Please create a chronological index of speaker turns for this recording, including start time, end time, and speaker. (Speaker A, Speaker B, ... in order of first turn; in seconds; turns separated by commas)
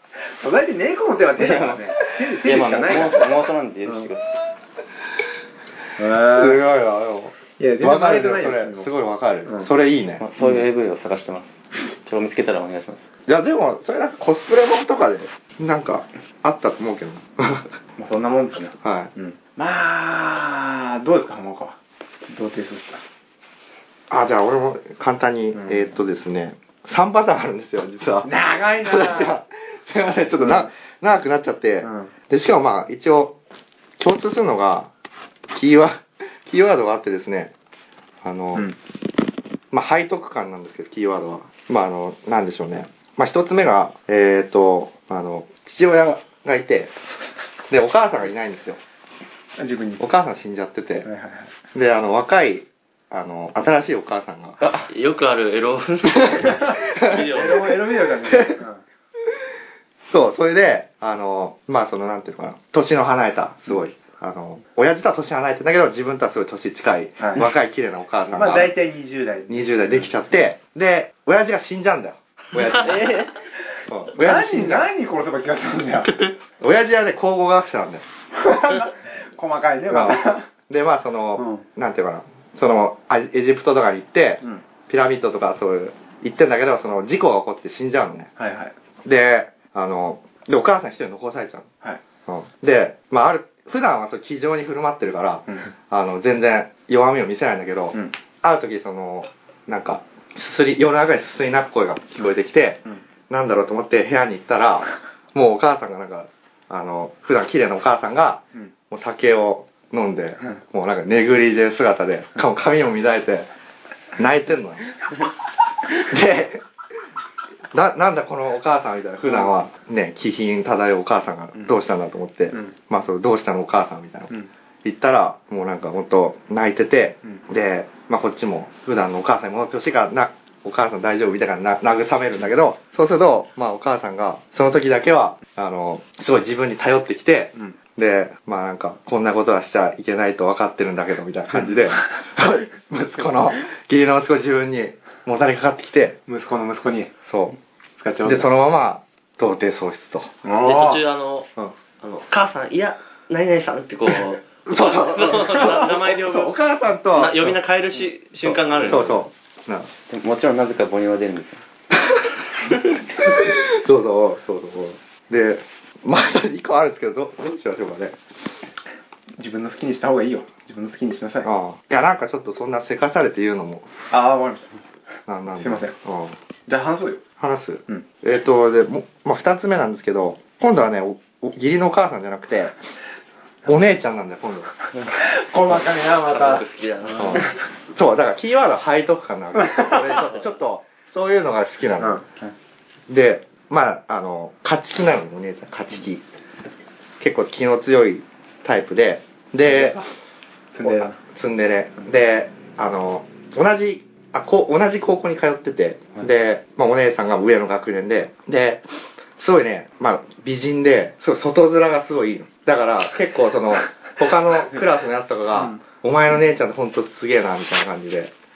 Speaker A: 0.3-3.4, Speaker B: 1.4-1.8, Speaker B: 2.4-4.3, Speaker A: 6.0-6.6, Speaker C: 6.3-10.2, Speaker A: 7.6-8.9, Speaker B: 10.2-13.0, Speaker C: 13.3-17.7, Speaker A: 18.0-21.8, Speaker C: 18.8-19.1, Speaker A: 22.3-23.0, Speaker C: 24.1-33.4, Speaker A: 25.5-25.9, Speaker A: 28.2-29.4, Speaker A: 30.4-30.7, Speaker A: 31.8-32.1, Speaker C: 34.0-34.9, Speaker C: 35.5-37.5, Speaker C: 38.2-38.7, Speaker C: 39.7-46.9, Speaker C: 47.7-48.8, Speaker A: 49.6-50.1, Speaker C: 50.0-51.1, Speaker A: 51.0-51.5, Speaker C: 51.7-54.6, Speaker B: 54.6-54.9, Speaker D: 54.9-57.8, Speaker C: 56.2-57.3, Speaker A: 56.5-58.8, Speaker C: 58.3-58.6, Speaker C: 60.1-68.7, Speaker A: 67.2-67.5, Speaker A: 68.3-70.3, Speaker C: 69.5-73.2, Speaker B: 72.8-73.3, Speaker C: 73.9-74.9, Speaker A: 74.1-76.2, Speaker C: 76.6-78.0, Speaker A: 78.3-80.5, Speaker C: 79.9-88.3, Speaker A: 81.4-81.6, Speaker A: 88.4-88.7, Speaker C: 89.0-91.7, Speaker C: 92.3-113.5, Speaker C: 114.2-114.8, Speaker C: 116.0-116.6, Speaker C: 117.7-124.3, Speaker A: 119.3-119.5, Speaker C: 124.8-146.2, Speaker A: 146.3-147.1, Speaker C: 147.3-147.6, Speaker A: 148.0-148.5, Speaker C: 148.2-150.3, Speaker A: 150.4-151.0, Speaker D: 150.6-151.5, Speaker D: 152.0-156.6, Speaker C: 154.7-157.6, Speaker D: 157.1-159.3, Speaker C: 158.4-159.9, Speaker B: 160.1-161.6, Speaker C: 163.2-168.2, Speaker A: 169.4-171.5, Speaker C: 171.4-173.9, Speaker A: 174.1-174.8, Speaker C: 175.3-176.3, Speaker A: 175.6-175.9, Speaker A: 176.7-177.2, Speaker C: 177.4-182.7, Speaker C: 183.7-184.7, Speaker A: 185.1-186.7, Speaker D: 186.2-187.6, Speaker C: 187.2-192.2, Speaker A: 189.6-190.2, Speaker A: 192.0-192.3, Speaker C: 193.1-196.2, Speaker C: 197.2-200.0, Speaker A: 199.6-200.1, Speaker A: 200.7-201.2, Speaker C: 200.8-208.8, Speaker C: 209.4-218.3, Speaker A: 215.6-215.8